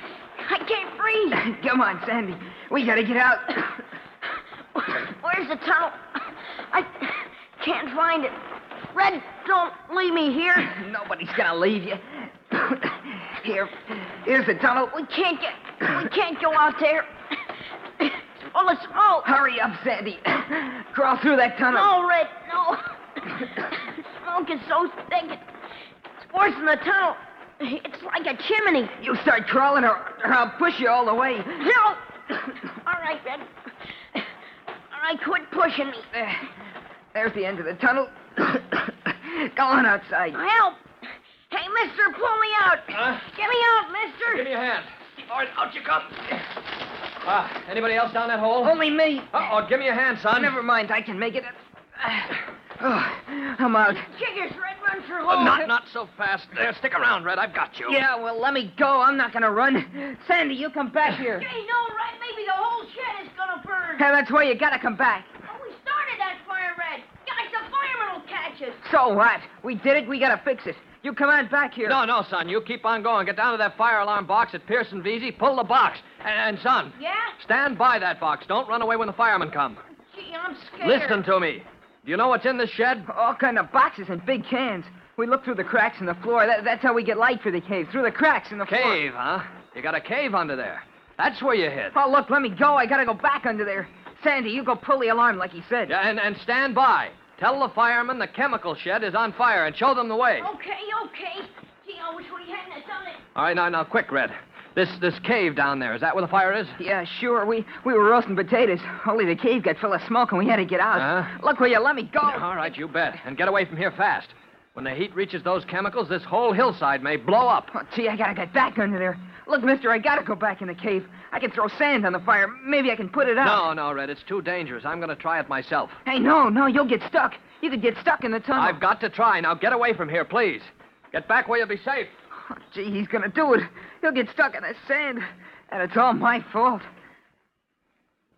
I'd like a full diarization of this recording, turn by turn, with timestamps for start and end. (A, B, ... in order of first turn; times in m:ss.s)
0:00.4-0:01.4 A
0:01.4-0:03.8 B
0:04.7-0:10.7 A
0:10.7-0:15.1 B
0:15.0-0:19.3 A
0:19.2-0:21.9 B
0:21.7-0:25.4 A
0:26.2-0:28.9 A
0:29.0-0:31.6 B
0:31.6-0:33.5 A
0:34.9-0:36.1 A
0:36.1-0:36.5 B
0:37.1-0:40.4 B
0:40.3-0:40.8 A
0:41.5-0:44.5 A
0:43.0-0:43.2 C
0:44.2-0:46.4 C
0:47.2-0:48.7 C
0:48.6-0:49.4 B
0:49.3-0:50.6 C
0:50.3-0:54.1 B
0:53.9-0:55.5 A
0:55.3-0:58.0 C
0:57.8-1:01.5 B
1:01.2-1:04.1 A
1:04.0-1:05.3 B
1:05.5-1:08.8 A
1:08.8-1:12.0 B
1:11.8-1:19.8 C
1:17.0-1:17.3 A
1:20.1-1:21.2 A
1:20.8-1:23.1 C
1:23.1-1:29.0 B
1:28.7-1:31.9 C
1:31.9-1:35.9 B
1:35.9-1:40.5 C
1:40.4-1:43.2 A
1:43.4-1:46.8 C
1:46.8-1:52.5 B
1:50.9-1:51.3 C
1:52.2-1:57.7 C
1:57.7-2:03.7 B
2:03.4-2:06.0 C
2:06.0-2:08.8 B
2:08.6-2:12.1 C
2:12.4-2:16.8 B